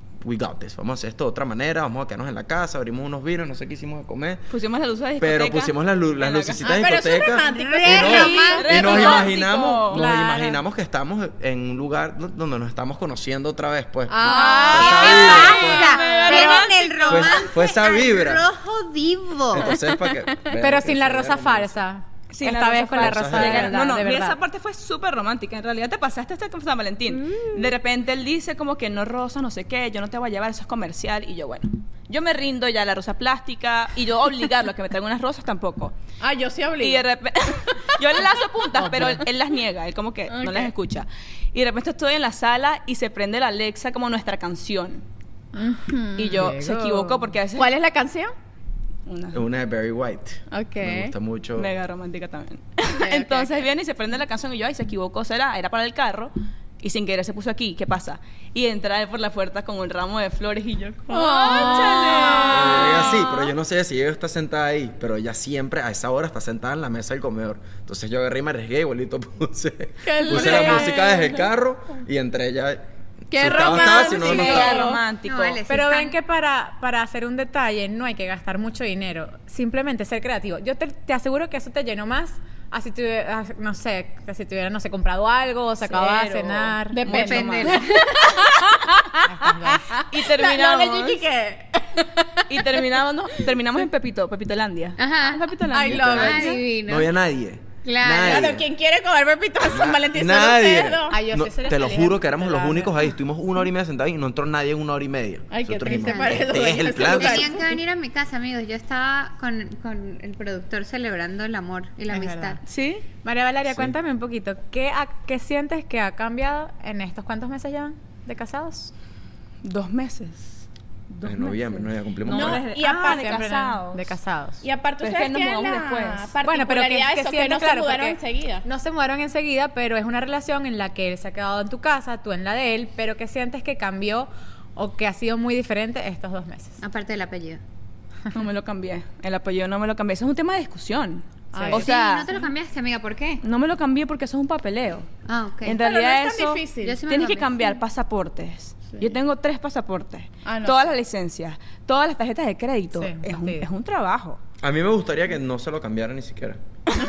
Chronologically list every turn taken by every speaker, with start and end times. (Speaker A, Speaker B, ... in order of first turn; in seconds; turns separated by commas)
Speaker A: 0.2-4.4, Speaker B: 4.5-6.8, Speaker A: 5.2-15.9, Speaker C: 6.6-9.3, Speaker D: 7.4-9.3, Speaker B: 8.1-10.0, Speaker E: 9.9-10.6, Speaker C: 14.1-15.6, Speaker E: 14.2-15.1, Speaker D: 14.3-19.8, Speaker B: 14.8-17.3, Speaker C: 16.1-16.6, Speaker A: 17.1-18.5, Speaker A: 19.5-21.8, Speaker E: 20.6-24.4, Speaker B: 22.3-36.0, Speaker A: 23.0-23.8, Speaker C: 36.2-37.0, Speaker B: 36.8-45.0, Speaker C: 37.6-38.0, Speaker E: 38.8-39.2, Speaker C: 40.3-40.7, Speaker C: 45.5-46.5, Speaker E: 46.2-47.2, Speaker B: 46.2-47.7, Speaker C: 47.5-48.3, Speaker B: 49.1-49.4, Speaker A: 49.3-51.7, Speaker C: 50.5-51.1, Speaker B: 51.6-63.4, Speaker C: 53.0-53.5, Speaker C: 61.1-63.3, Speaker A: 62.5-74.9, Speaker C: 70.0-71.4, Speaker E: 70.3-70.9, Speaker C: 73.3-75.0, Speaker B: 73.5-75.6, Speaker D: 74.5-76.2, Speaker E: 75.7-87.0, Speaker B: 85.8-88.4, Speaker C: 86.9-92.8, Speaker D: 87.1-88.1, Speaker E: 89.3-89.9, Speaker B: 90.1-91.2, Speaker B: 92.5-96.5, Speaker D: 95.0-97.1, Speaker C: 95.7-96.6, Speaker A: 95.9-98.6, Speaker D: 97.8-98.6, Speaker C: 98.2-101.2, Speaker A: 99.7-107.5, Speaker E: 101.1-103.0, Speaker C: 105.5-107.8, Speaker D: 105.9-112.6, Speaker E: 112.1-112.6, Speaker B: 112.7-113.0, Speaker E: 113.2-118.9, Speaker A: 113.7-113.9, Speaker B: 119.6-124.1, Speaker A: 121.2-122.6, Speaker C: 122.3-123.4, Speaker E: 122.4-124.6, Speaker C: 124.6-128.7, Speaker B: 125.0-126.3, Speaker E: 126.4-136.8, Speaker D: 136.8-137.6, Speaker B: 138.3-142.3, Speaker C: 141.5-141.8, Speaker D: 141.7-143.4, Speaker B: 143.4-145.1, Speaker D: 145.2-145.8, Speaker B: 145.6-154.4, Speaker C: 145.8-147.0, Speaker D: 146.8-147.8, Speaker C: 150.4-150.9, Speaker E: 152.9-153.6, Speaker A: 154.6-156.6